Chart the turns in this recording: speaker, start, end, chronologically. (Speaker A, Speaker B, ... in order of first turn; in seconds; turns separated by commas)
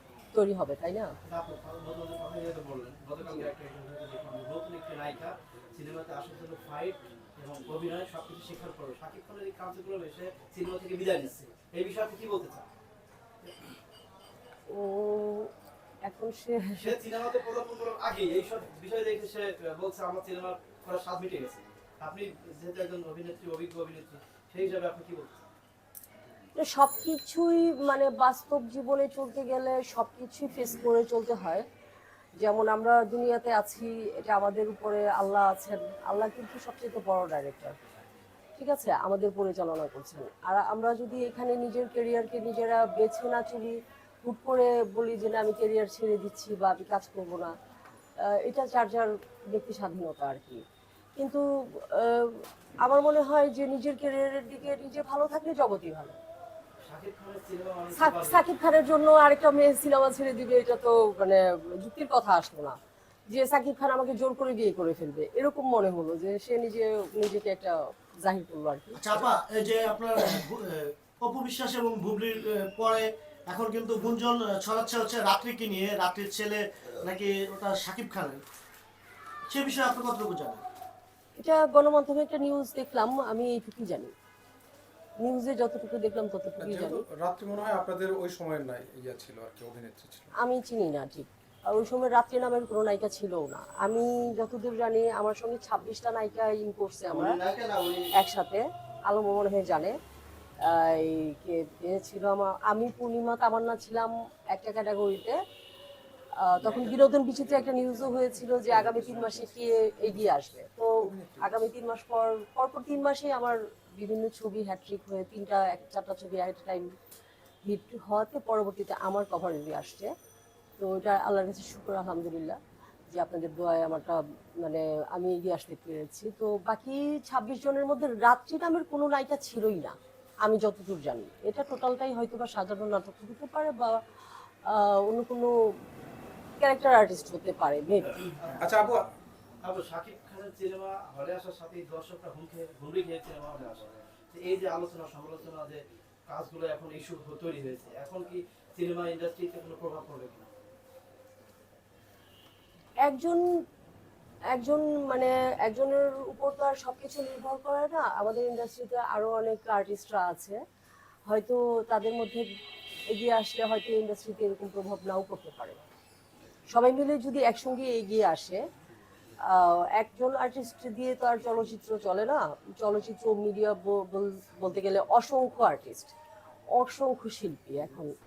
Speaker A: 0.3-1.1, Speaker B: 1.2-12.7, Speaker A: 3.2-3.5, Speaker B: 13.4-13.7, Speaker A: 14.7-15.5, Speaker A: 16.0-16.9, Speaker B: 16.8-25.4, Speaker A: 26.6-31.6, Speaker A: 32.4-37.8, Speaker A: 38.5-47.5, Speaker A: 48.2-50.6, Speaker A: 51.2-56.2, Speaker B: 56.8-58.4, Speaker A: 58.0-62.8, Speaker A: 63.3-69.2, Speaker C: 69.0-78.4, Speaker C: 79.5-80.6, Speaker A: 81.4-84.1, Speaker A: 85.2-87.0, Speaker D: 86.6-90.3, Speaker A: 90.4-97.4, Speaker B: 97.1-98.1, Speaker A: 98.1-100.0, Speaker A: 100.6-105.4, Speaker A: 106.4-116.9, Speaker D: 111.0-111.5, Speaker A: 117.6-120.1, Speaker A: 120.8-122.6, Speaker A: 123.1-134.0, Speaker A: 134.6-135.5, Speaker A: 136.6-138.2, Speaker B: 138.4-138.9, Speaker D: 138.6-139.1, Speaker B: 139.6-150.5, Speaker A: 153.0-153.4, Speaker A: 154.5-160.6, Speaker A: 161.3-162.4, Speaker A: 163.1-165.8, Speaker A: 166.7-168.6, Speaker A: 169.5-176.1, Speaker A: 176.7-178.1